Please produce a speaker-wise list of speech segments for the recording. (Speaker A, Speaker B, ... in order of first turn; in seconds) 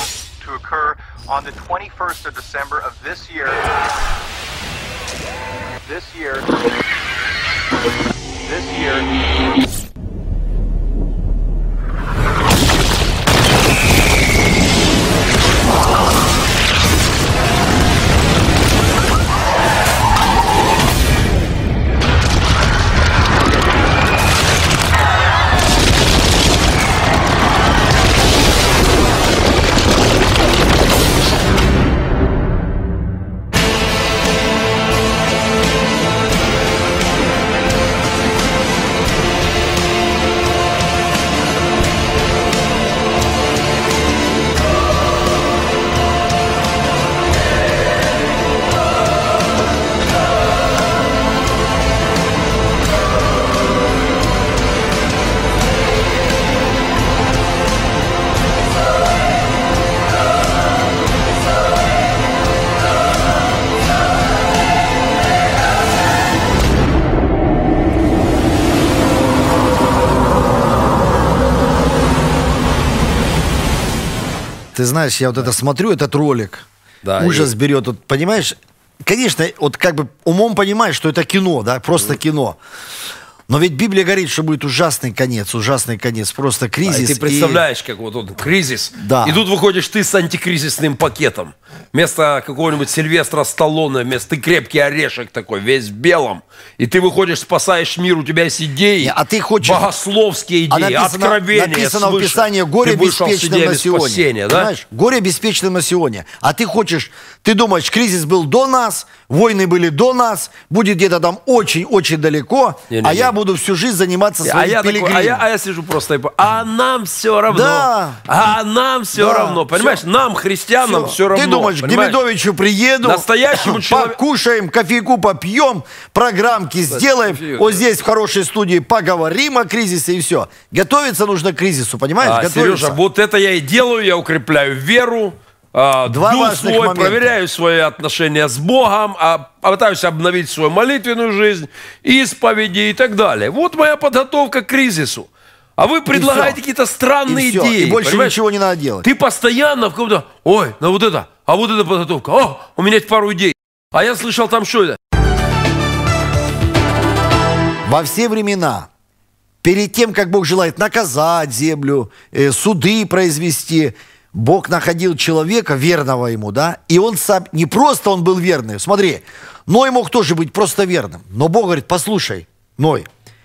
Speaker A: 0.4-3.7, 5.8-6.5, 8.4-9.1
Speaker B: 74.7-76.7, 77.2-82.6, 83.5-87.6, 89.0-89.4, 99.0-99.9, 100.7-115.4, 117.5-118.2, 119.1-120.0, 120.8-133.0, 136.1-137.3, 146.1-146.6, 147.3-149.0, 157.8-158.9, 159.6-173.1
Speaker C: 77.0-77.5, 86.8-104.7, 112.9-113.3, 114.4-122.2, 123.0-124.2, 126.9-127.8, 132.2-148.4, 149.0-155.0